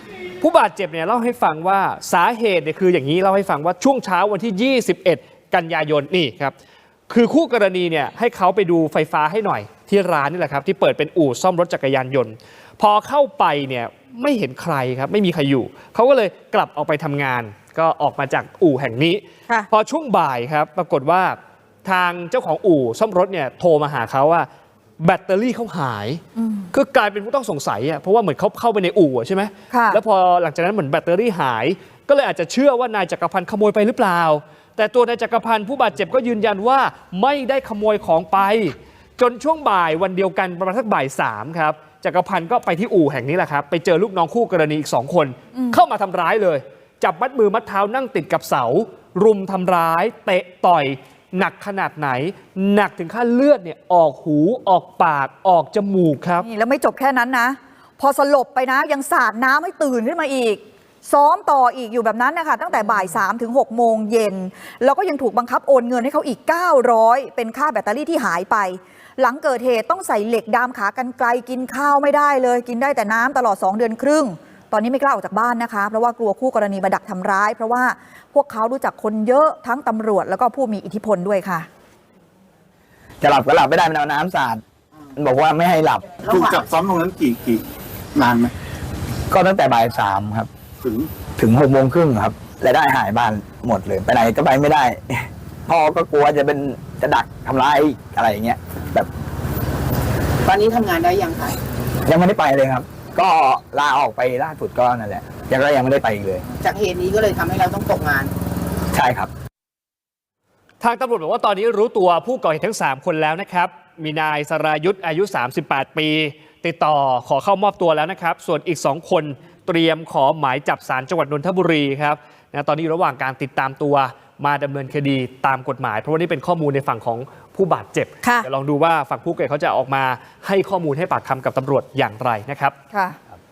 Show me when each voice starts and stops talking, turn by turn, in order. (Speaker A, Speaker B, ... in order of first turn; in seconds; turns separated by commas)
Speaker A: 0.4-6.5, Speaker A: 7.1-24.5, Speaker A: 25.0-56.5, Speaker B: 26.4-26.7, Speaker B: 29.7-30.0, Speaker B: 45.5-45.8, Speaker B: 56.4-81.7, Speaker C: 83.2-84.6, Speaker C: 85.2-86.0, Speaker D: 86.3-86.6, Speaker E: 86.3-88.5, Speaker C: 89.3-90.5, Speaker E: 90.8-91.1, Speaker C: 91.4-99.1, Speaker D: 100.5-101.6, Speaker C: 102.0-106.4, Speaker D: 106.6-108.3, Speaker C: 108.9-109.3, Speaker A: 110.8-132.7, Speaker B: 132.9-133.2